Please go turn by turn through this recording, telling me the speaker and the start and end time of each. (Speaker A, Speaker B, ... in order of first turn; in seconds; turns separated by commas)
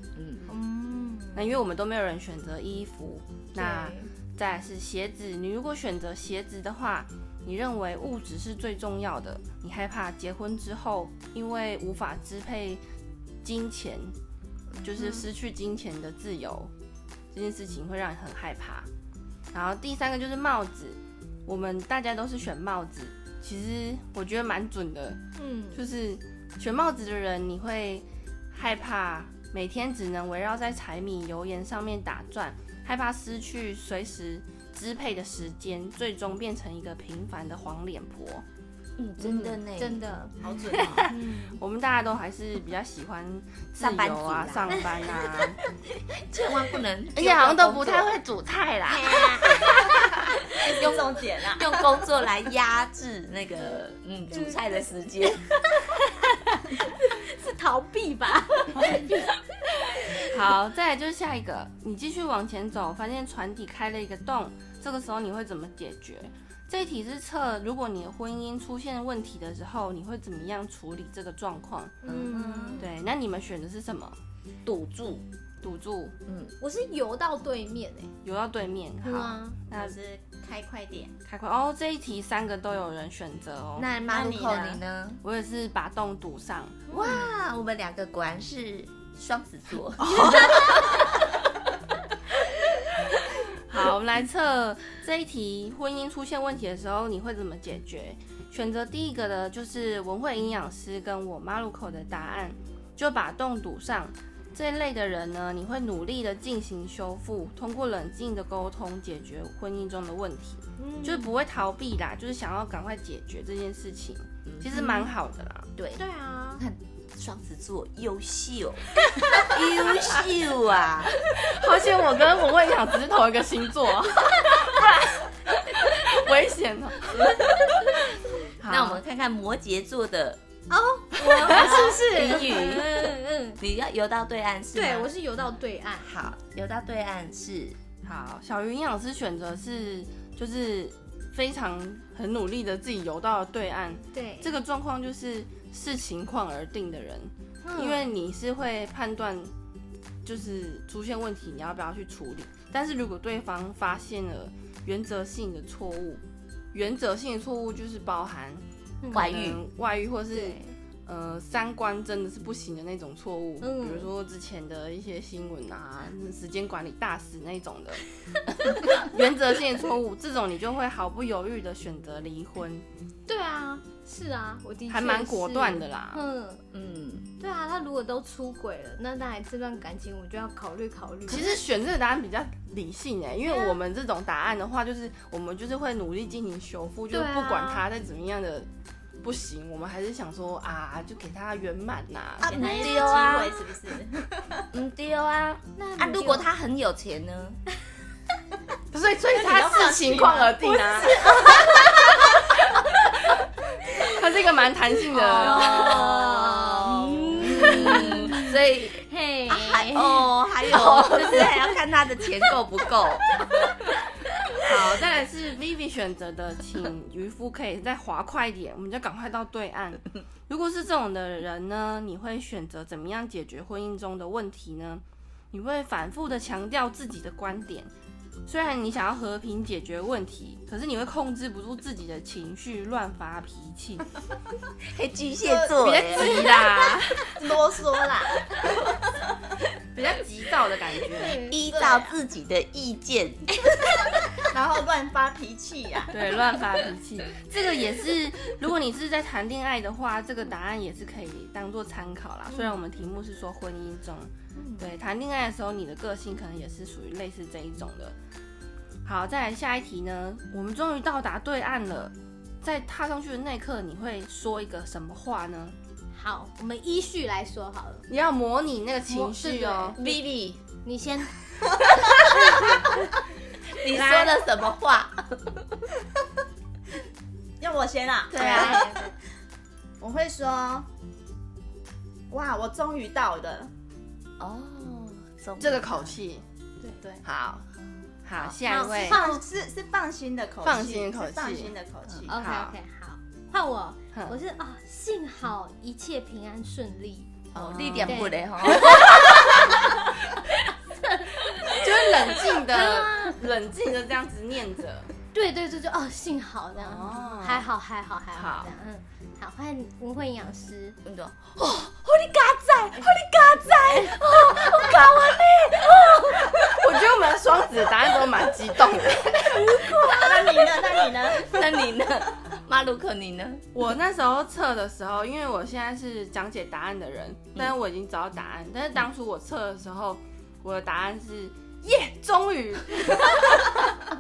Speaker A: 0.2-0.5, Speaker B: 0.5-1.5, Speaker C: 1.4-12.8, Speaker B: 3.6-4.1, Speaker C: 13.4-14.2, Speaker A: 14.7-15.2, Speaker C: 14.8-16.7, Speaker C: 17.3-18.9, Speaker C: 19.5-25.2, Speaker B: 25.4-25.8, Speaker C: 25.7-38.5, Speaker A: 39.0-40.1, Speaker C: 39.2-39.5, Speaker B: 39.8-41.6, Speaker D: 40.4-41.1, Speaker C: 40.8-45.6, Speaker A: 43.8-45.1, Speaker B: 44.7-45.2, Speaker A: 46.1-49.5, Speaker C: 47.1-48.4, Speaker B: 48.9-50.1, Speaker D: 50.6-51.8, Speaker A: 50.7-55.8, Speaker B: 54.3-54.6, Speaker B: 56.8-59.4, Speaker C: 58.8-59.0, Speaker B: 60.0-60.3, Speaker C: 60.2-72.0, Speaker A: 72.0-72.8, Speaker B: 72.0-72.9, Speaker C: 72.8-74.2, Speaker A: 74.7-75.2, Speaker C: 75.6-76.2, Speaker A: 76.3-76.5, Speaker B: 76.6-78.1, Speaker C: 78.2-80.0, Speaker B: 79.0-79.6, Speaker D: 79.7-81.1, Speaker C: 81.3-83.9, Speaker A: 83.8-85.2, Speaker D: 84.1-84.8, Speaker C: 85.2-86.8, Speaker B: 86.9-87.3, Speaker A: 86.9-90.7, Speaker C: 90.1-90.7, Speaker C: 93.6-115.7, Speaker B: 110.8-111.3, Speaker B: 114.7-115.1, Speaker A: 115.8-116.0, Speaker B: 116.0-116.6, Speaker A: 116.6-121.2, Speaker C: 121.2-127.4, Speaker C: 128.6-129.0, Speaker A: 128.7-130.4, Speaker B: 130.7-133.6, Speaker C: 131.2-131.8, Speaker D: 131.4-132.0, Speaker A: 131.4-135.1, Speaker B: 134.7-136.1, Speaker A: 136.0-137.8, Speaker C: 138.0-149.5, Speaker B: 144.1-144.5, Speaker B: 147.6-148.1, Speaker C: 150.2-156.2, Speaker C: 156.7-172.8, Speaker B: 159.0-159.3, Speaker A: 159.1-159.6, Speaker B: 163.6-164.1, Speaker B: 173.3-176.6, Speaker C: 174.9-176.2, Speaker A: 176.7-177.3, Speaker B: 177.4-181.6, Speaker C: 181.3-188.7, Speaker B: 183.5-183.8, Speaker B: 187.1-187.8, Speaker C: 189.2-192.5, Speaker D: 192.4-194.7, Speaker A: 192.4-193.5, Speaker B: 192.5-193.5, Speaker A: 194.7-197.6, Speaker B: 195.8-196.5, Speaker C: 198.9-201.7, Speaker D: 199.3-201.3, Speaker B: 201.2-201.8, Speaker C: 202.2-203.4, Speaker C: 204.0-206.1, Speaker B: 205.1-210.3, Speaker A: 205.3-213.4, Speaker C: 207.6-208.1, Speaker C: 210.7-211.5, Speaker B: 211.1-211.5, Speaker C: 214.6-227.9, Speaker C: 228.5-234.1, Speaker A: 234.9-236.6, Speaker D: 235.4-236.5, Speaker C: 235.8-237.4, Speaker D: 237.2-239.0, Speaker C: 239.9-241.4, Speaker B: 241.2-241.6, Speaker A: 241.4-243.6, Speaker D: 241.7-242.1, Speaker D: 244.3-246.2, Speaker C: 246.1-258.2, Speaker B: 252.5-252.8, Speaker B: 254.6-254.9, Speaker C: 259.1-265.8, Speaker B: 266.1-268.1, Speaker C: 268.1-270.0, Speaker B: 269.1-270.2, Speaker A: 270.0-270.6, Speaker B: 270.8-271.3, Speaker B: 272.3-273.0, Speaker A: 273.8-275.7, Speaker C: 273.9-274.4, Speaker D: 277.6-279.1, Speaker A: 278.3-278.9, Speaker C: 278.3-278.8, Speaker B: 278.4-278.9, Speaker D: 280.0-280.9, Speaker D: 282.3-283.7, Speaker A: 284.4-286.2, Speaker C: 285.6-286.4, Speaker C: 287.2-287.7, Speaker A: 287.8-288.6, Speaker C: 288.2-289.2, Speaker B: 288.6-289.4, Speaker D: 288.8-292.4, Speaker C: 290.6-291.7, Speaker B: 292.3-297.4, Speaker C: 292.3-292.8, Speaker C: 297.6-298.2, Speaker A: 297.6-299.9, Speaker D: 297.6-298.1, Speaker B: 298.1-299.9, Speaker B: 301.1-303.4, Speaker C: 301.7-305.1, Speaker B: 305.3-311.0, Speaker C: 306.8-307.7, Speaker C: 308.3-308.7, Speaker A: 311.0-316.8, Speaker C: 316.6-319.8, Speaker A: 319.5-320.6, Speaker B: 319.9-320.2, Speaker D: 320.0-321.6, Speaker A: 321.3-323.7, Speaker C: 323.7-333.8